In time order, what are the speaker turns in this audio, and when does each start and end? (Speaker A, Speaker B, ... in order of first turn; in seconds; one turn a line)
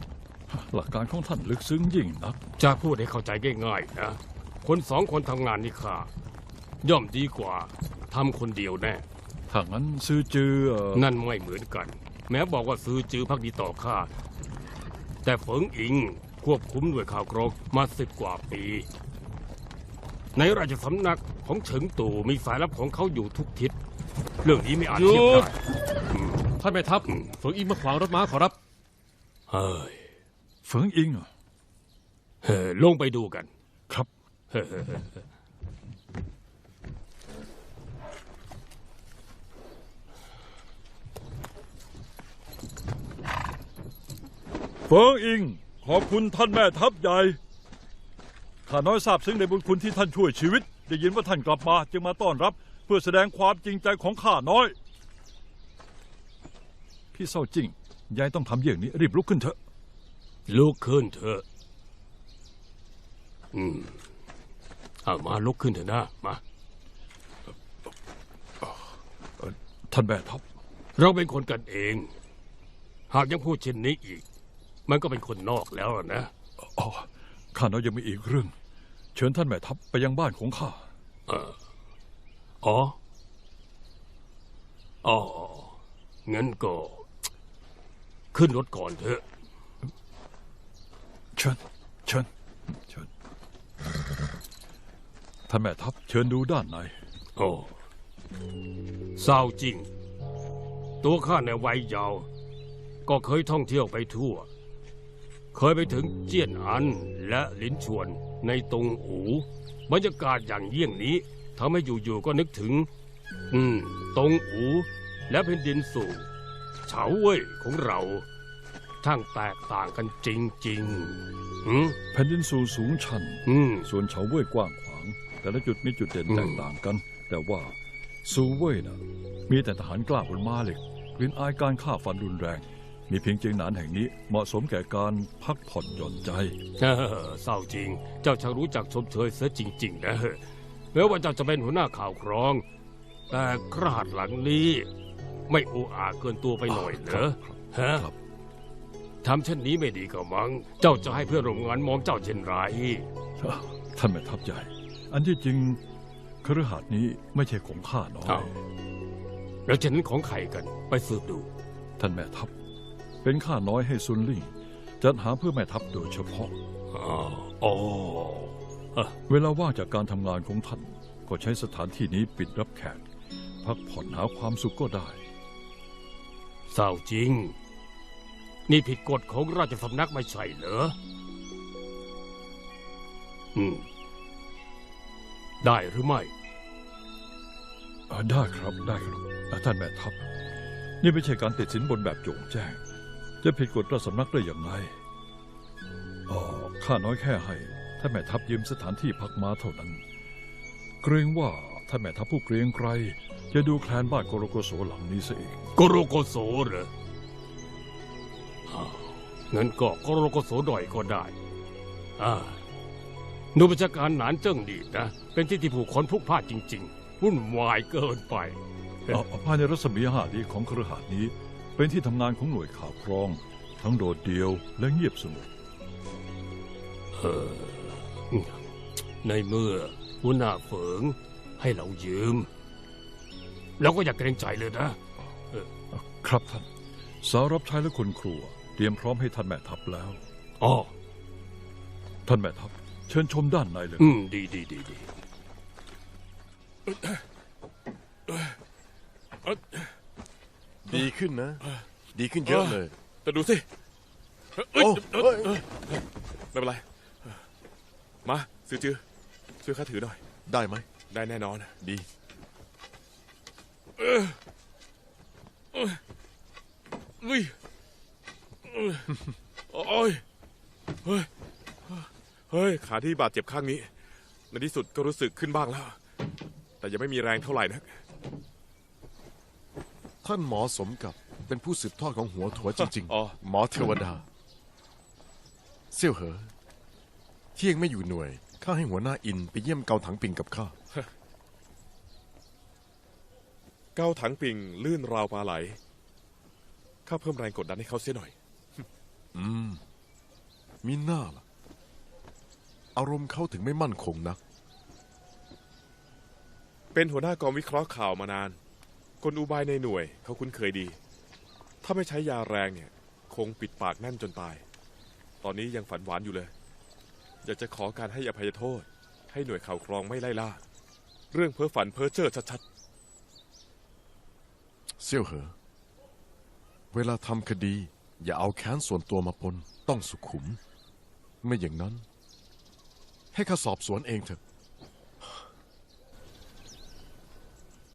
Speaker A: 0.5-2.4
Speaker B: 2.6-6.1
Speaker B: 6.8-9.0
Speaker A: 9.5-11.1
Speaker B: 10.9-14.1
Speaker B: 15.2-18.9
Speaker B: 20.3-23.8
Speaker B: 24.4-25.6
Speaker C: 24.9-25.6
Speaker B: 26.1-26.5
Speaker C: 26.6-28.6
Speaker B: 27.1-27.3
Speaker B: 29.5-30.1
Speaker A: 30.6-31.3
Speaker B: 32.4-33.5
Speaker B: 34.5-35.2
Speaker A: 44.9-47.4
Speaker A: 48.6-54.8
Speaker A: 57.1-59.6
Speaker B: 60.5-61.4
Speaker B: 63.5-64.0
Speaker B: 65.0-66.4
Speaker A: 69.4-70.4
Speaker B: 71.0-72.1
Speaker B: 73.1-74.2
Speaker B: 74.9-76.3
Speaker A: 76.6-78.5
Speaker A: 79.1-80.9
Speaker B: 81.3-81.5
Speaker B: 82.6-83.0
Speaker B: 85.0-87.0
Speaker B: 88.3-89.2
Speaker A: 91.3-93.1
Speaker A: 95.5-97.0
Speaker B: 97.4-97.8
Speaker B: 99.2-99.9
Speaker B: 101.0-102.3
Speaker B: 103.0-104.5
Speaker B: 105.5-112.9
Speaker B: 113.5-116.3
Speaker B: 116.8-118.2
Speaker B: 119.0-122.0
Speaker A: 122.1-136.6
Speaker B: 123.5-123.9
Speaker B: 126.3-126.6
Speaker B: 136.8-142.6
Speaker B: 143.3-144.9
Speaker B: 145.5-148.1
Speaker A: 146.7-148.2
Speaker B: 149.2-153.1
Speaker A: 153.4-155.8
Speaker A: 156.4-158.6
Speaker B: 158.2-158.5
Speaker B: 159.7-161.5
Speaker A: 162.0-162.5
Speaker A: 163.2-166.6
Speaker B: 166.9-169.1
Speaker A: 169.3-173.0
Speaker A: 173.6-175.2
Speaker B: 176.7-177.6
Speaker B: 178.7-180.9
Speaker B: 183.5-183.9
Speaker B: 185.6-186.3
Speaker A: 188.1-190.2
Speaker A: 191.0-192.8
Speaker A: 193.4-194.9
Speaker A: 196.3-200.0
Speaker A: 201.0-205.6
Speaker B: 205.8-206.9
Speaker B: 208.7-211.3
Speaker B: 212.2-212.6
Speaker B: 213.5-219.2
Speaker A: 219.1-225.5
Speaker B: 227.1-228.7
Speaker B: 229.2-232.5
Speaker B: 233.8-235.0
Speaker A: 235.9-236.7
Speaker A: 237.2-240.2
Speaker B: 240.6-240.9
Speaker A: 242.2-244.1
Speaker B: 244.0-245.1
Speaker D: 246.9-247.2
Speaker D: 248.3-248.5
Speaker D: 249.4-249.9
Speaker E: 250.8-251.6
Speaker E: 252.1-252.9
Speaker D: 252.4-253.7
Speaker D: 254.6-256.0
Speaker E: 254.7-255.6
Speaker D: 256.5-257.4
Speaker D: 258.2-259.0
Speaker D: 259.6-260.2
Speaker E: 260.4-260.9
Speaker D: 261.1-261.8
Speaker E: 261.8-262.1
Speaker D: 264.0-264.4
Speaker D: 265.7-266.0
Speaker D: 267.2-267.5
Speaker D: 268.6-269.1
Speaker D: 269.7-270.2
Speaker D: 271.9-273.9
Speaker D: 274.5-276.0
Speaker D: 276.8-278.0
Speaker E: 280.2-284.2
Speaker D: 282.8-283.4
Speaker E: 285.9-286.5
Speaker E: 287.6-290.7
Speaker D: 293.9-295.8
Speaker D: 297.1-298.8
Speaker E: 299.3-299.8
Speaker E: 300.8-301.4
Speaker E: 302.9-304.4
Speaker D: 306.9-308.6
Speaker D: 309.2-311.0
Speaker D: 311.8-314.6
Speaker D: 315.4-316.5
Speaker D: 317.4-320.6
Speaker D: 321.3-322.6
Speaker E: 325.0-325.5
Speaker E: 326.9-330.6
Speaker E: 331.4-332.0
Speaker E: 333.3-334.4